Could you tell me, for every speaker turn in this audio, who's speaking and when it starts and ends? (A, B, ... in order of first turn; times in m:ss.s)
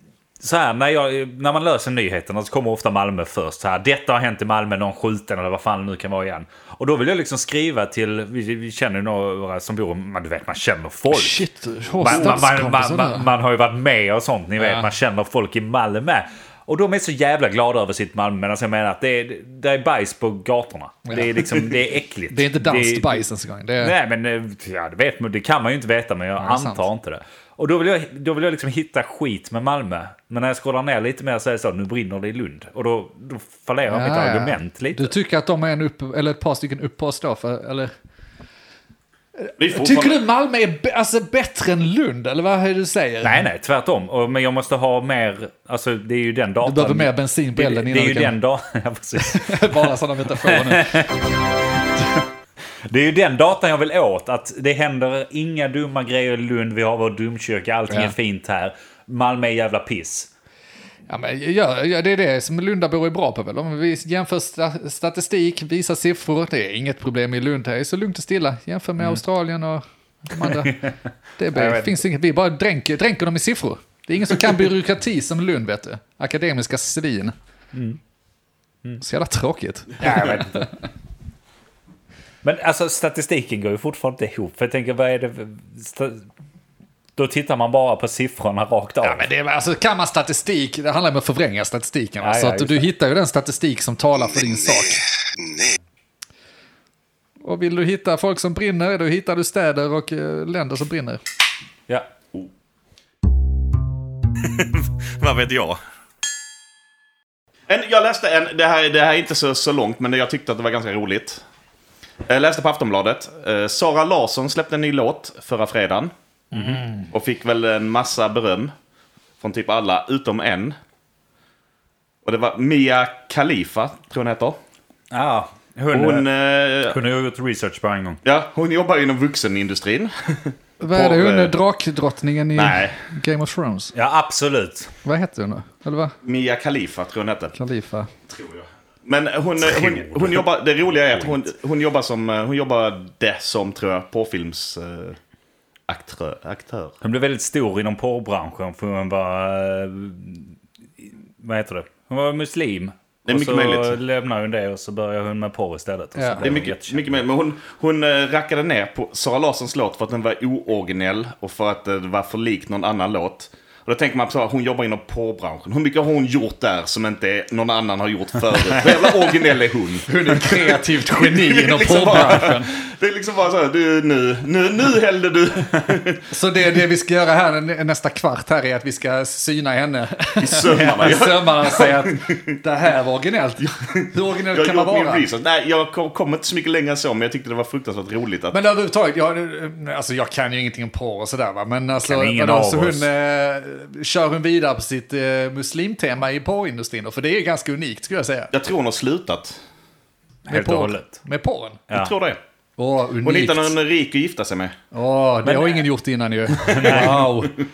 0:00.4-0:11.4 A
0:11.1-0:13.3 B
0:12.0-0:23.2 A
0:14.6-0:14.9 B
0:21.1-0:21.7 B
0:22.3-0:23.9 B
0:23.8-0:35.1 A
0:26.4-0:26.8 B
0:33.9-0:37.9 B
0:39.4-0:43.4 B
0:39.6-0:40.2 C
0:43.2-0:51.2 A
0:46.6-0:48.4 B
0:49.2-0:51.1 B
0:52.9-1:00.3 A
1:01.1-1:10.8 B
1:10.4-1:10.9 A
1:11.4-1:17.3 B
1:11.5-1:12.0 A
1:17.7-1:18.0 A
1:19.0-1:20.7 B
1:20.0-1:20.7 A
1:22.4-1:26.2 A
1:27.2-1:29.2 A
1:29.0-1:35.0 B
1:32.2-1:32.9 A
1:37.4-1:41.2 B
1:44.4-1:45.8 C
1:47.7-1:51.4 C
1:52.2-1:56.1 C
1:56.5-1:57.0 A
1:57.1-1:58.7 C
1:59.4-2:00.8 C
2:02.2-2:04.6 C
2:05.1-2:06.3 A
2:05.9-2:07.0 C
2:06.8-2:08.2 A
2:08.2-2:11.5 C
2:10.8-2:13.9 B
2:12.5-2:13.0 C
2:13.9-2:14.9 A
2:15.0-2:16.1 B
2:16.2-2:17.5 C
2:17.5-2:18.1 B
2:18.3-2:25.2 C
2:19.6-2:20.5 A
2:21.1-2:21.4 A
2:25.9-2:26.9 C
2:27.0-2:30.5 A
2:31.4-2:37.1 A
2:33.2-2:34.0 C
2:36.2-2:36.5 B
2:36.4-2:56.2 C
2:50.1-2:52.7 B
2:56.3-3:05.2 B
3:00.4-3:02.5 C
3:03.6-3:08.5 C
3:08.5-3:18.5 B
3:12.0-3:13.0 A
3:18.5-3:19.6 C
3:20.5-3:21.2 A
3:20.5-3:21.8 B
3:21.9-3:22.4 C
3:22.8-3:23.7 B
3:23.2-3:24.8 C
3:24.9-3:27.5 B
3:25.4-3:25.8 A
3:26.6-3:27.1 C
3:26.6-3:27.4 A